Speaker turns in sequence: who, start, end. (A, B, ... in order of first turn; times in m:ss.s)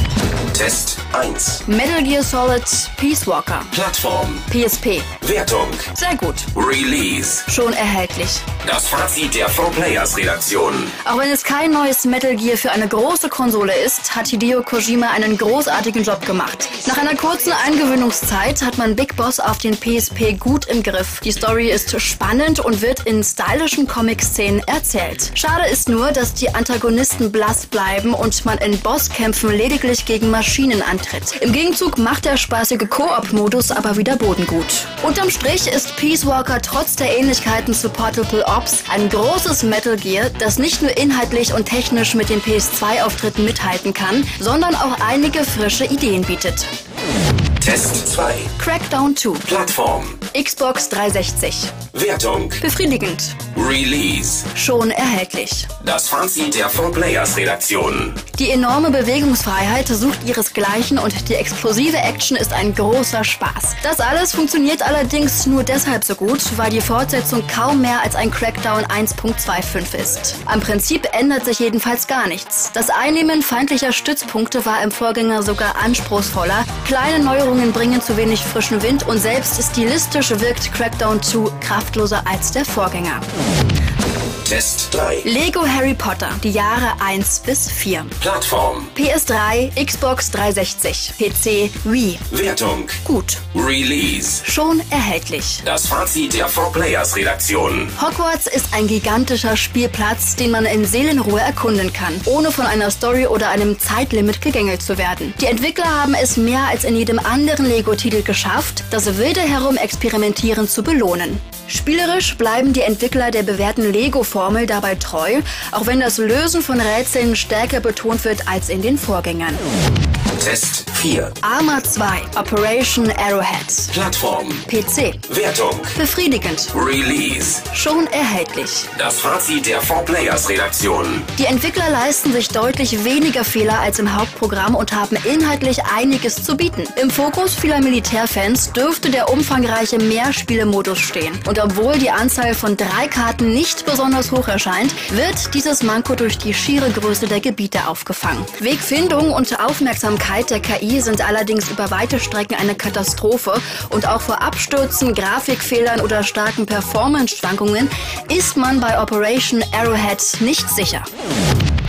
0:00.5-0:01.6 A
0:01.7-0:03.7 B
0:03.7-0:04.5 A
0:04.5-0:05.1 B
0:05.2-0:05.9 A
0:05.9-0:06.5 B
0:06.5-0:07.5 A
0:07.5-0:08.4 B
0:08.6-0:11.0 A
0:11.0-0:46.7 B
0:47.6-0:48.6 A
0:48.6-0:49.5 B
0:49.4-0:50.2 A
0:50.3-0:51.8 B
0:51.9-0:52.6 A
0:52.6-0:53.4 B
0:53.5-0:54.5 A
0:54.5-0:55.7 B
0:55.8-0:58.2 A
0:58.4-1:23.2 B
1:24.4-1:25.3 A
1:25.2-1:28.2 B
1:28.2-1:28.9 A
1:29.0-1:32.2 B
1:32.3-1:34.4 A
1:33.0-1:33.4 B
1:34.4-1:35.6 B
1:35.6-1:38.0 A
1:38.0-1:59.6 B
2:00.4-2:01.4 A
2:01.4-2:03.9 B
2:03.9-2:04.6 A
2:04.7-2:05.2 B
2:05.3-2:06.0 A
2:06.0-2:06.7 B
2:06.7-2:07.7 A
2:07.7-2:08.9 B
2:08.9-2:11.3 A
2:11.4-2:41.1 B